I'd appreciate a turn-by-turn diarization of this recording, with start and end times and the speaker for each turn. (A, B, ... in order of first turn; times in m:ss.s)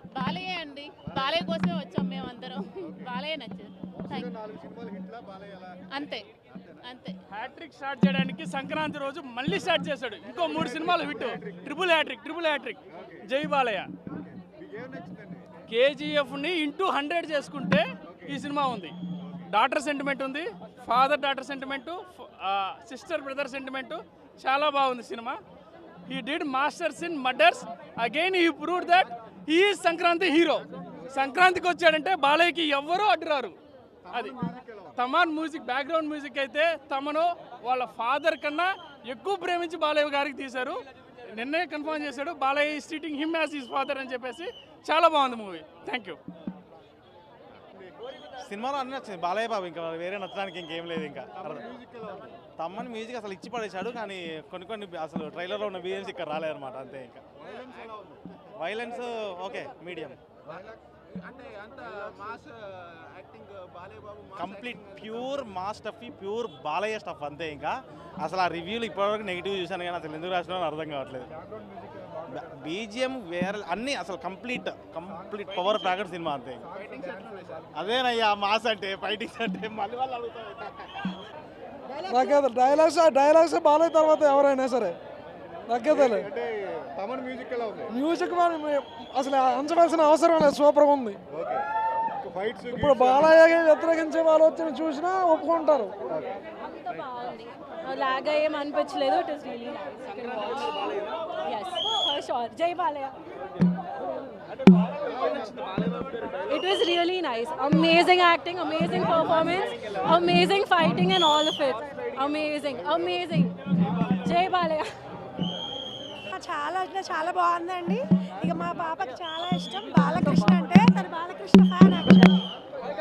0:00.1-0:04.3 A
0:01.1-0:01.5 B
0:02.9-0:03.1 B
0:04.1-0:06.8 B
0:06.0-0:06.2 A
0:06.8-0:07.1 A
0:07.3-0:13.9 C
0:10.4-0:11.6 B
0:14.1-0:15.5 B
0:15.7-0:25.4 C
0:18.0-0:18.3 B
0:26.1-0:33.6 C
0:34.1-0:34.9 B
0:34.1-0:34.4 C
0:34.9-0:46.2 C
0:48.4-0:51.7 D
0:51.6-0:52.4 B
0:52.6-0:57.2 D
0:57.4-0:58.2 B
0:58.6-1:00.2 D
1:01.2-1:11.3 D
1:01.7-1:02.4 B
1:04.4-1:05.1 B
1:12.2-1:21.2 D
1:16.8-1:17.6 B
1:22.0-1:25.0 E
1:25.7-1:26.3 E
1:25.9-1:27.9 B
1:27.9-1:31.2 E
1:31.3-1:31.6 B
1:32.2-1:33.4 B
1:32.7-1:36.0 E
1:36.8-1:43.1 F
1:45.0-1:46.1 B
1:46.4-1:54.9 F
1:56.3-2:02.4 G